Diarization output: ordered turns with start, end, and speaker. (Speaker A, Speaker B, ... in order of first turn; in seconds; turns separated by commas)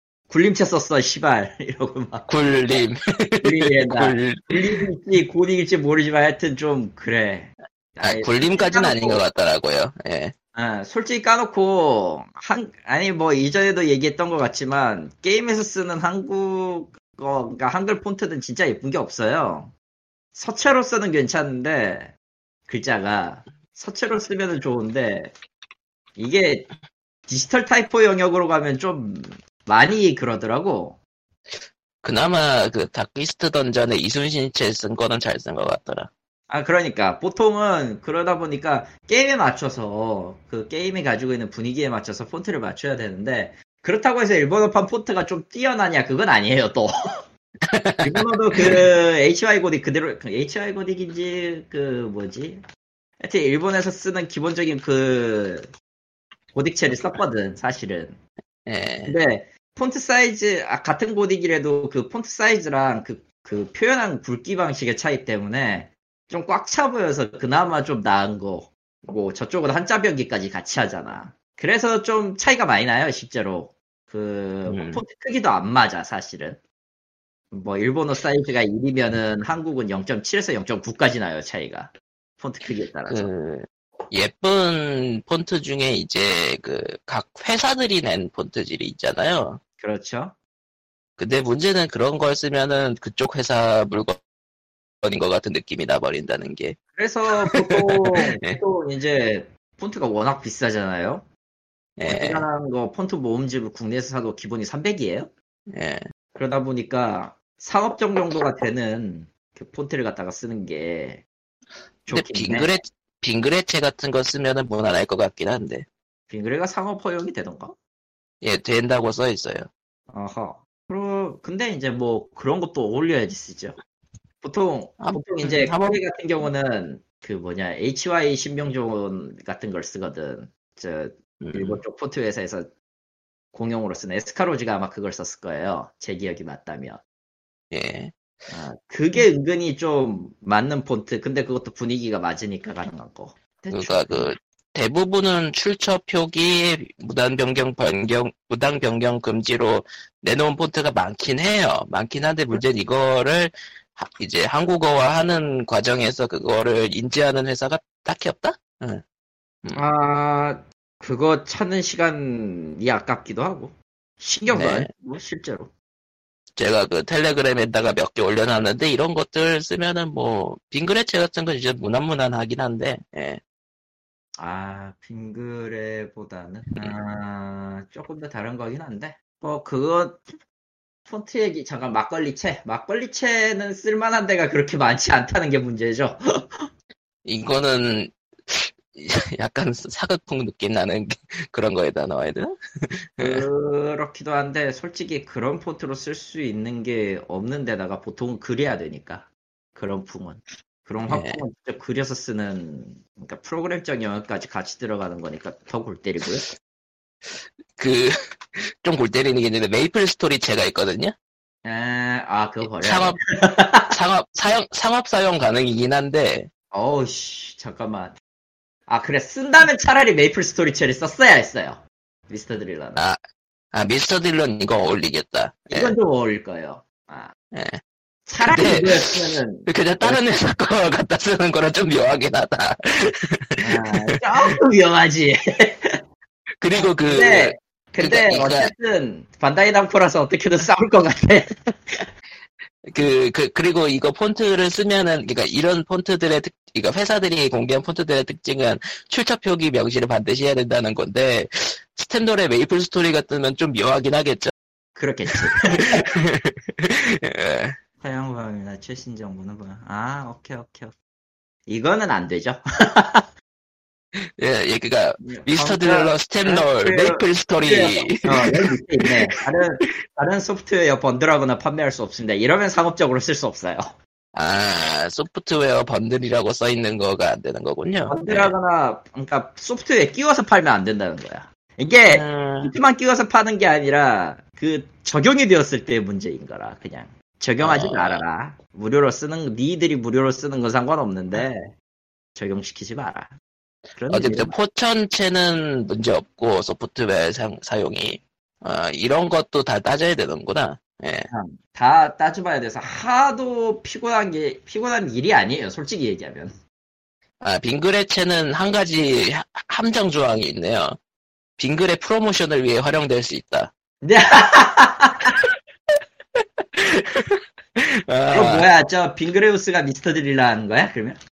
Speaker A: 0.3-2.3, Speaker B: 2.3-4.8, Speaker A: 3.4-9.2, Speaker B: 8.0-10.3, Speaker A: 10.5-19.7, Speaker A: 20.3-22.1, Speaker A: 22.7-25.3, Speaker A: 26.1-26.7, Speaker A: 27.3-31.0, Speaker B: 32.0-36.1, Speaker A: 36.5-46.9, Speaker B: 47.7-48.8, Speaker A: 48.0-52.6, Speaker A: 53.2-55.7, Speaker A: 56.5-58.2, Speaker B: 58.6-59.1, Speaker A: 59.0-76.6, Speaker B: 74.7-75.0, Speaker A: 77.5-83.3, Speaker B: 83.1-89.6, Speaker A: 89.8-90.4, Speaker B: 91.2-94.2, Speaker B: 95.0-96.8, Speaker A: 97.0-101.3, Speaker B: 97.4-98.6, Speaker B: 102.0-102.5, Speaker A: 102.1-105.3, Speaker B: 105.7-106.0, Speaker A: 106.3-111.2, Speaker A: 112.0-112.7, Speaker B: 112.1-115.9, Speaker A: 116.3-117.8, Speaker B: 118.4-119.7, Speaker A: 120.1-123.8, Speaker A: 124.4-132.7, Speaker B: 125.0-126.0, Speaker B: 131.4-131.8, Speaker A: 133.5-137.0, Speaker B: 137.7-138.1, Speaker A: 138.5-144.3, Speaker B: 143.7-159.0, Speaker A: 159.7-165.7, Speaker B: 164.5-164.9, Speaker B: 166.6-173.4, Speaker A: 174.4-180.3, Speaker A: 181.1-186.4, Speaker B: 187.2-193.5, Speaker A: 193.2-206.5, Speaker B: 201.1-201.4, Speaker B: 207.8-211.1, Speaker A: 211.6-213.9, Speaker B: 212.6-213.2, Speaker B: 213.9-216.5, Speaker A: 216.7-218.1, Speaker A: 218.9-223.0, Speaker B: 223.7-225.9, Speaker A: 225.7-227.3, Speaker B: 227.5-227.8, Speaker A: 228.2-230.2, Speaker B: 228.4-234.5, Speaker A: 233.6-235.9, Speaker B: 236.6-238.7, Speaker A: 236.7-242.1, Speaker B: 242.9-254.5, Speaker A: 254.9-256.0, Speaker B: 255.3-257.8, Speaker A: 258.0-260.9, Speaker A: 261.7-263.2, Speaker B: 264.2-269.3, Speaker A: 265.2-273.8, Speaker B: 274.3-278.5, Speaker A: 278.1-291.7, Speaker B: 282.1-282.7, Speaker B: 287.6-288.2, Speaker A: 292.4-293.3, Speaker A: 293.9-294.5, Speaker B: 294.1-301.3, Speaker A: 301.3-306.5, Speaker B: 307.4-311.0, Speaker B: 311.6-313.7, Speaker A: 314.0-315.3, Speaker B: 316.4-318.7, Speaker A: 318.3-321.2